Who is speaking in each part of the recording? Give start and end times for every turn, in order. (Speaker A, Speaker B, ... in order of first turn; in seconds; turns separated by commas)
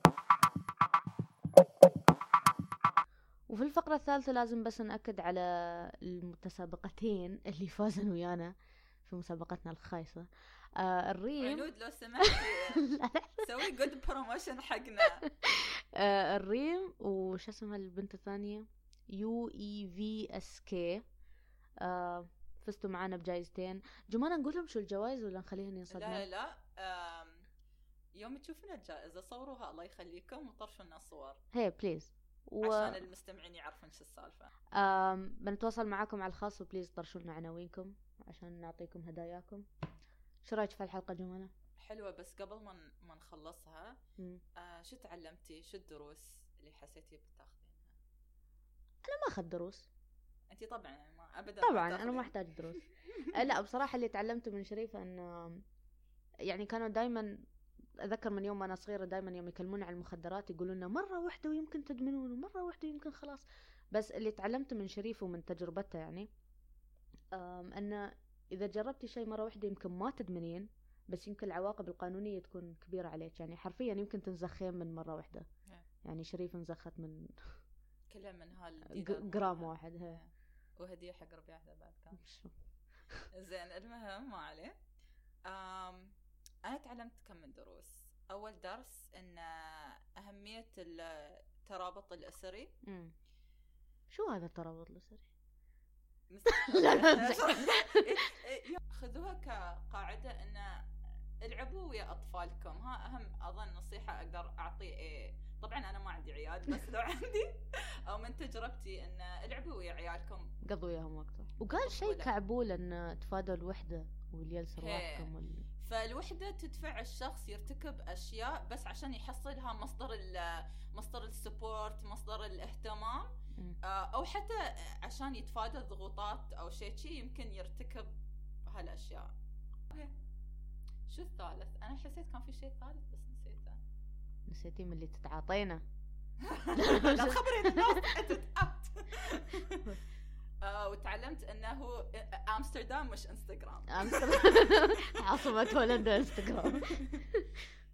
Speaker A: 3.5-8.5, Speaker A: 9.0-11.7, Speaker B: 11.4-15.2, Speaker A: 12.2-13.6, Speaker A: 15.0-21.0, Speaker A: 21.8-26.2, Speaker B: 25.9-27.4, Speaker B: 28.1-31.4, Speaker A: 31.5-33.0, Speaker B: 32.6-34.5, Speaker A: 34.7-39.6, Speaker A: 40.4-41.5, Speaker B: 41.8-44.0, Speaker B: 44.5-48.0, Speaker A: 49.0-49.9, Speaker B: 50.5-52.8, Speaker A: 51.6-55.6, Speaker A: 56.5-57.4, Speaker A: 58.0-66.3, Speaker A: 67.3-75.5, Speaker A: 76.0-77.6, Speaker B: 78.1-82.2, Speaker A: 78.9-80.2, Speaker A: 82.2-82.5, Speaker B: 83.3-84.8, Speaker B: 85.5-86.1, Speaker B: 86.6-92.7, Speaker A: 92.8-93.1, Speaker A: 94.1-95.3, Speaker B: 96.3-100.8, Speaker A: 96.5-98.2, Speaker B: 101.4-110.5, Speaker A: 110.6-115.6, Speaker B: 111.7-112.3, Speaker B: 114.8-123.3, Speaker B: 123.8-128.1, Speaker B: 128.6-129.3, Speaker B: 131.1-133.8, Speaker A: 134.5-135.8, Speaker B: 136.5-139.9, Speaker A: 136.7-138.2, Speaker B: 140.6-144.7, Speaker A: 143.9-147.6, Speaker B: 146.7-147.2